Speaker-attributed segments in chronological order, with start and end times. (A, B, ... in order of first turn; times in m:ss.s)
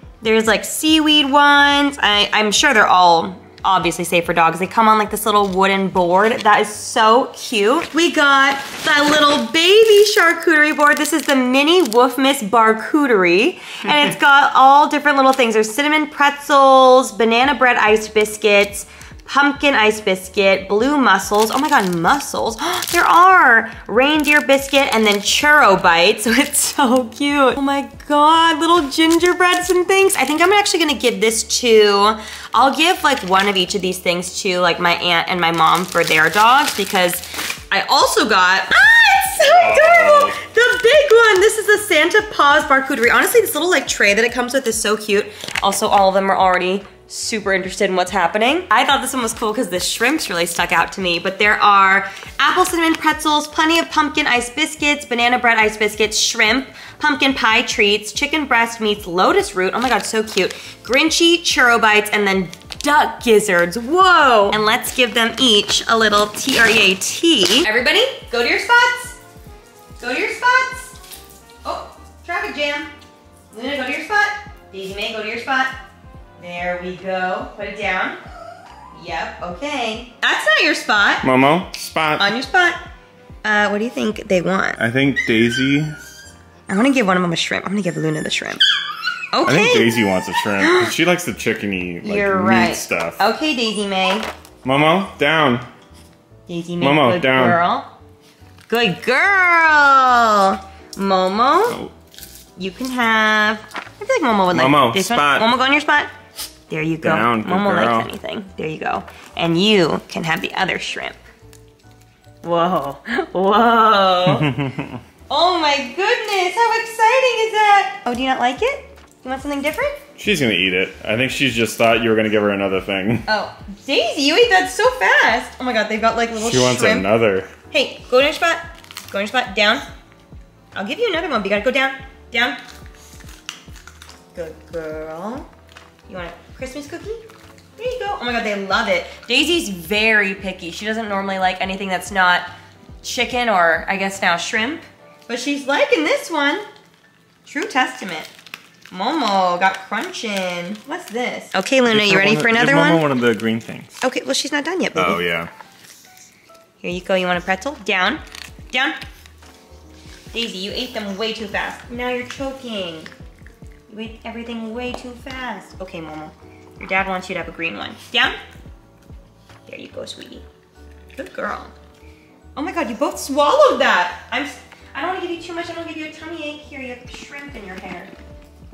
0:00.2-1:09.2 A
0:39.4-0:40.4 B
1:10.0-1:11.0 A
1:11.6-1:12.9 A
1:13.5-1:15.7 A
1:16.4-1:18.2 A
1:18.9-1:21.2 A
1:21.2-1:22.3 B
1:22.2-1:22.8 A
1:23.4-1:24.8 A
1:24.8-1:26.0 B
1:26.7-1:28.6 A
1:29.3-1:29.9 A
1:29.4-1:33.2 B
1:30.6-1:30.9 A
1:32.0-1:34.3 A
1:34.6-1:35.7 B
1:36.5-1:37.9 A
1:36.8-1:37.6 B
1:38.7-1:41.8 A
1:41.7-1:41.9 B
1:42.6-1:46.1 A
1:44.5-1:45.5 B
1:46.7-1:51.2 A
1:47.0-1:48.1 B
1:52.4-1:54.6 A
1:54.2-1:55.0 B
1:55.3-2:00.0 A
2:00.2-2:03.3 B
2:03.3-2:07.1 A
2:06.4-2:07.5 B
2:07.7-2:09.8 A
2:10.7-2:12.6 A
2:14.3-2:15.5 A
2:16.1-2:17.2 A
2:17.8-2:22.5 A
2:23.0-2:26.6 A
2:27.4-2:28.3 A
2:28.9-2:33.0 A
2:31.8-2:34.0 B
2:34.0-2:35.2 A
2:34.9-2:35.5 B
2:36.8-2:39.0 A
2:40.3-2:43.1 A
2:43.9-2:48.3 A
2:49.7-2:50.4 A
2:51.1-2:51.7 A
2:52.6-2:58.1 A